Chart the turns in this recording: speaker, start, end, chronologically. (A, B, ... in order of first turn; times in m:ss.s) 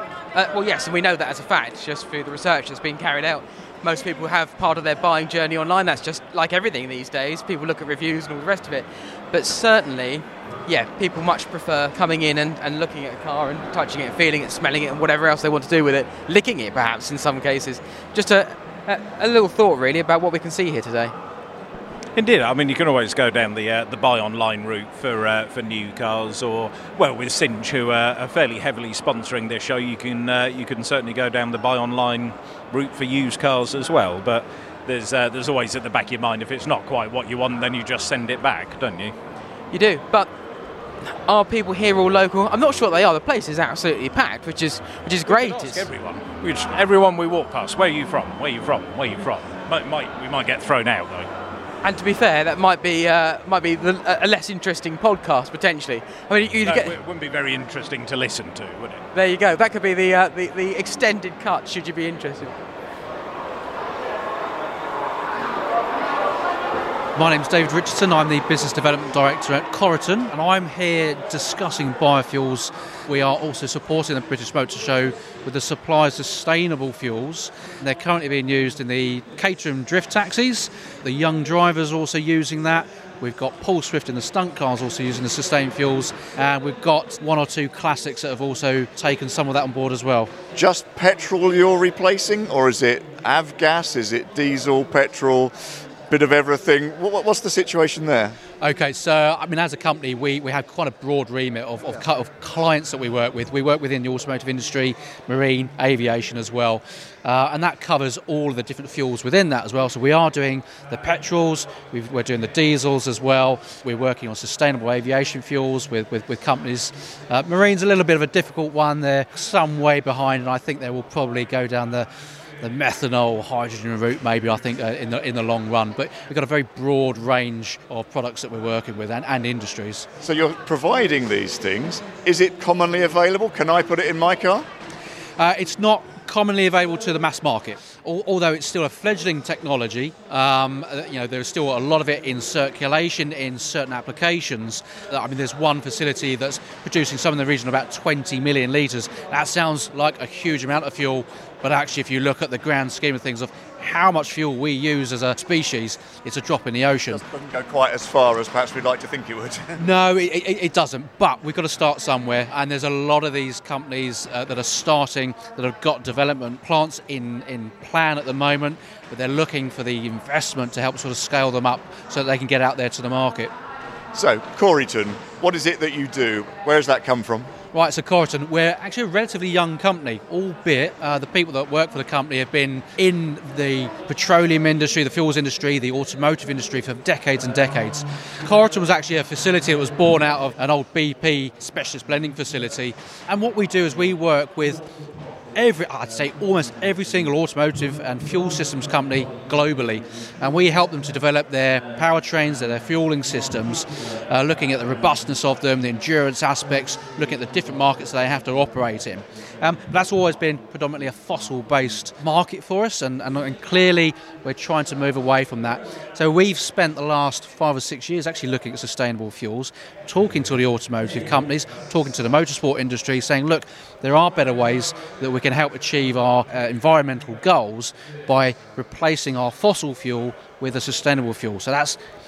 0:00.3-0:21.1 A
0:22.1-0:39.1 B
0:39.7-0:40.3 A
0:41.0-0:45.8 A
0:45.2-0:51.3 B
0:51.8-0:56.9 A
0:56.6-0:59.0 B
0:59.1-1:02.5 A
1:07.2-1:30.3 C
1:30.5-1:35.5 D
1:36.1-1:38.4 D
1:38.6-2:02.1 C
2:02.6-2:10.1 C
2:10.2-2:14.7 D
2:15.4-2:37.2 C
2:37.1-2:39.8 D
2:39.8-2:53.5 C
2:54.1-2:57.5 D
2:57.7-3:14.8 C
3:15.5-3:52.0 C